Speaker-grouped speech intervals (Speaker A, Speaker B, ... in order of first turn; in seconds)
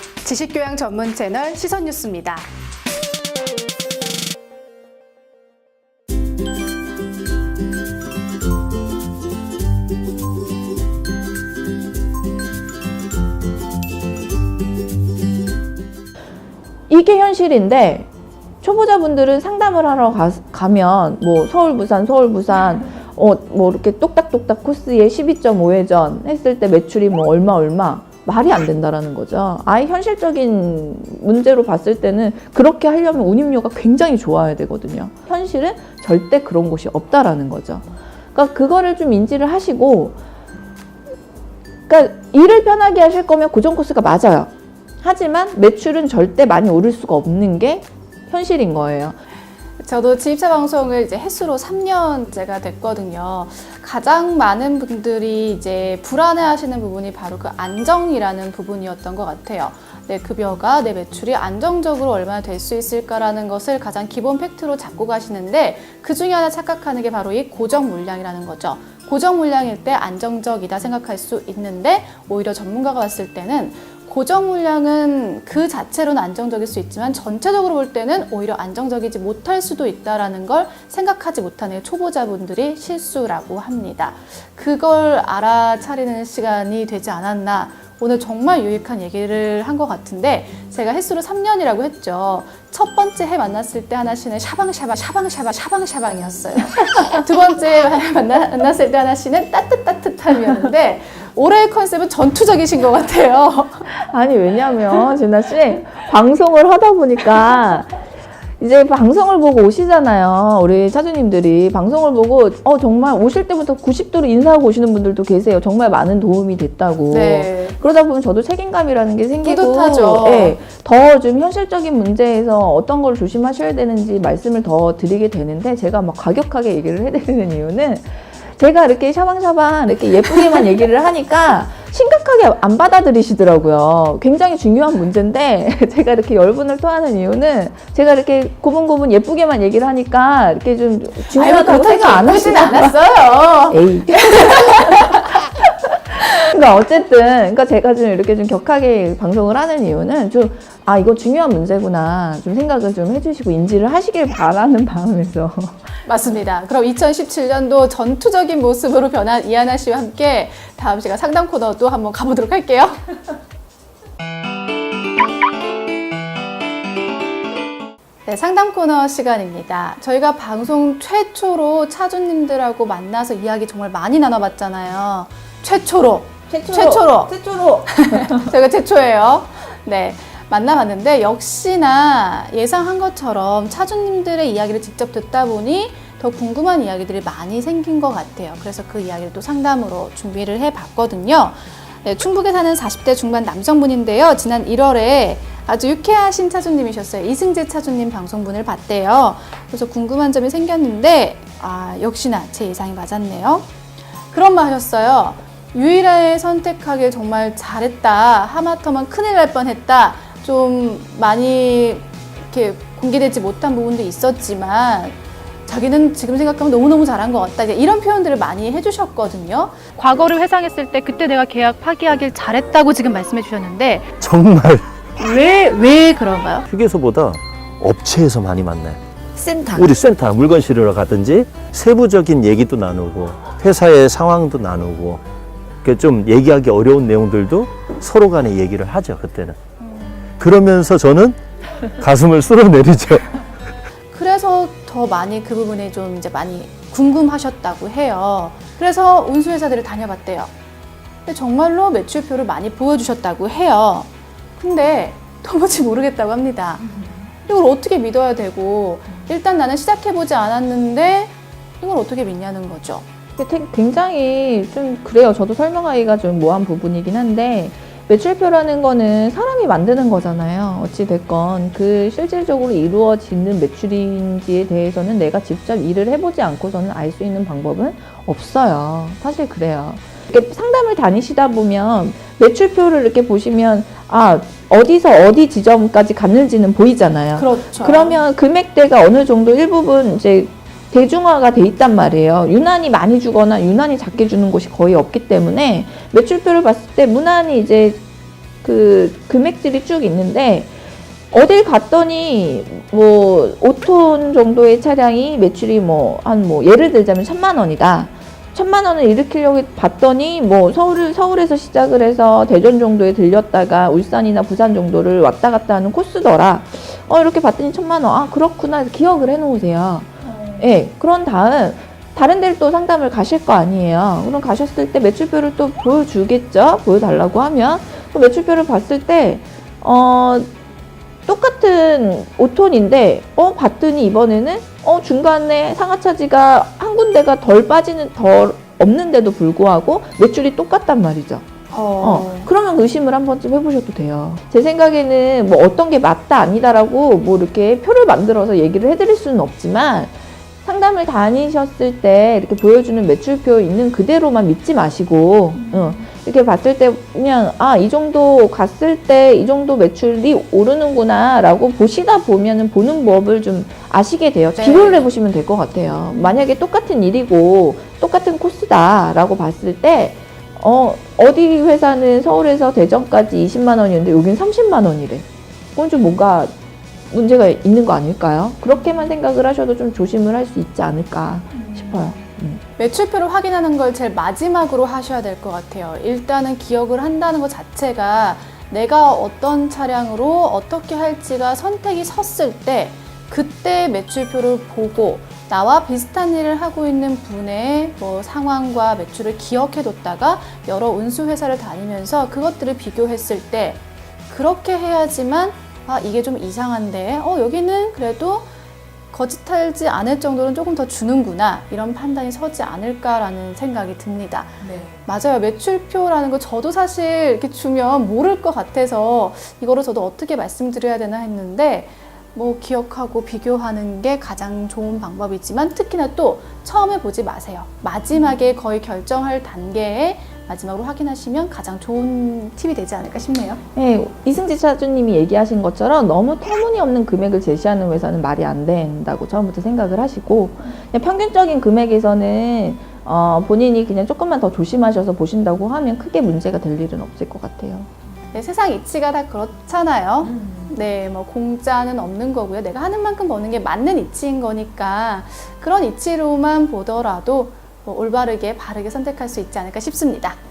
Speaker A: 0.2-2.5, 49.8-103.9, 117.1-117.8, 119.4-120.6, 141.3-145.2, 156.0-163.0, 168.2-177.3, 177.9-203.7, 204.3-224.1, 225.2-226.7, 239.8-240.1, 244.1-250.5, 251.2-263.1, 287.3-288.2, 320.3-320.6, 341.7-342.5, 364.6-365.1, 382.8-408.5, 409.1-433.6, 448.3-460.4
Speaker B: 16.9-18.1, 18.6-40.2, 41.9-44.5, 45.0-49.2, 103.9-108.0, 108.6-142.9, 143.7-155.9, 176.5-178.5, 229.3-229.9, 263.4-298.0, 298.6-300.7, 301.3-330.5, 331.2-341.5, 342.0-376.5, 377.1-382.6, 433.7-447.9
Speaker C: 224.2-224.8, 226.7-229.0, 229.7-235.2, 235.8-239.6, 240.4-241.4, 242.0-243.3